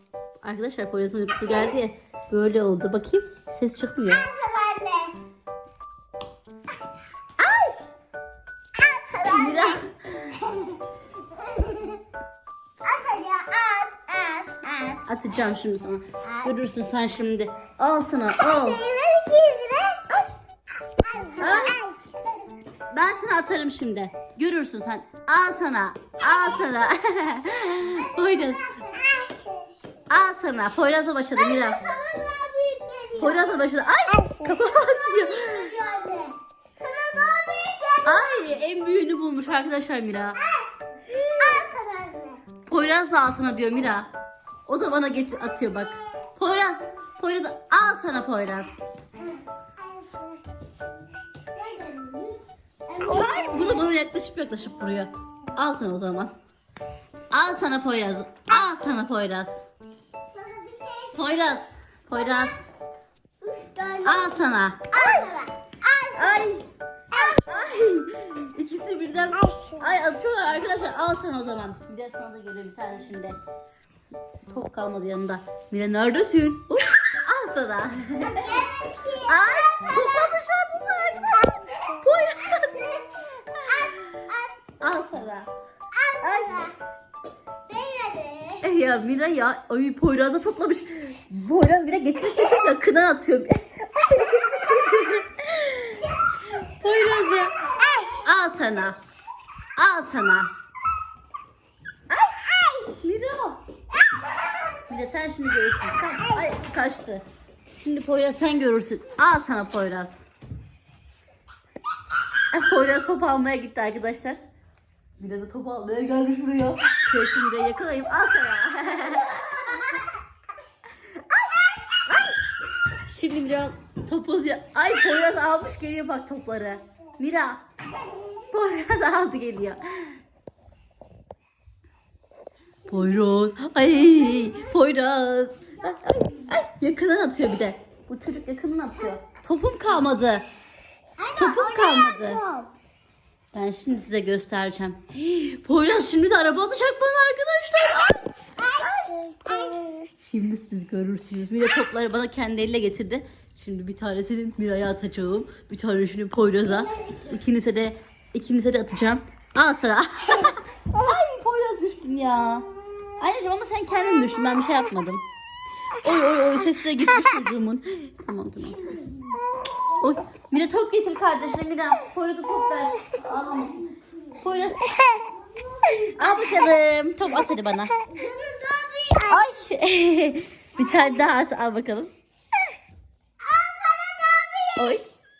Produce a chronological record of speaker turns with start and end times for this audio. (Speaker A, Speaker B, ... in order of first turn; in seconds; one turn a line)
Speaker A: 0.4-4.2
Speaker B: 4.1-5.2
Speaker A: 7.4-7.8
Speaker B: 8.8-9.8
Speaker A: 9.2-10.3
Speaker B: 10.4-10.8
Speaker B: 11.4-11.9
Speaker B: 12.8-15.0
Speaker A: 15.1-18.8
Speaker B: 16.2-16.5
Speaker B: 18.4-20.3
Speaker B: 21.0-22.2
Speaker A: 21.4-21.8
Speaker A: 22.9-28.7
Speaker B: 27.9-29.7
Speaker A: 30.1-31.8
Speaker B: 31.4-33.5
Speaker A: 33.1-35.7
Speaker B: 34.1-38.3
Speaker A: 38.0-40.4
Speaker B: 40.4-40.7
Speaker A: 41.1-41.6
Speaker B: 41.4-42.4
Speaker A: 42.6-44.1
Speaker A: 44.7-48.7
Speaker B: 49.8-50.4
Speaker B: 51.5-53.9
Speaker A: 53.0-56.3
Speaker A: 57.3-59.5
Speaker B: 60.3-61.3
Speaker A: 61.1-62.5
Speaker B: 62.1-62.6
Speaker B: 63.4-64.4
Speaker A: 64.0-65.2
Speaker B: 64.9-66.5
Speaker A: 66.2-73.3
Speaker B: 69.4-69.8
Speaker A: 74.5-78.6
Speaker B: 78.2-80.3
Speaker A: 79.2-84.1
Speaker B: 83.0-84.6
Speaker A: 84.8-85.5
Speaker B: 85.9-86.7
Speaker A: 86.2-86.6
Speaker B: 87.7-88.6
Speaker A: 88.6-97.5
Speaker B: 97.9-98.2
Speaker A: 98.2-99.0
Speaker A: 99.8-100.5
Speaker A: 102.1-103.6
Speaker A: 104.9-110.1
Speaker A: 112.5-114.4
Speaker A: 115.2-119.8
Speaker A: 122.1-122.4
Speaker A: 123.0-127.6
Speaker A: 128.4-130.2
Speaker A: 132.9-140.4
Speaker B: 134.2-134.7
Speaker B: 141.2-142.7
Speaker A: 141.3-142.4
Speaker A: 143.5-148.3
Speaker B: 148.5-150.0
Speaker A: 149.1-162.7
Speaker B: 156.9-157.2
Speaker A: 163.2-165.2
Speaker A: 166.0-169.0
Speaker A: 170.0-175.1
Speaker B: 175.1-176.1
Speaker A: 176.2-177.9
Speaker B: 178.1-179.5
Speaker A: 179.2-182.1
Speaker B: 183.4-185.0
Speaker A: 184.8-185.0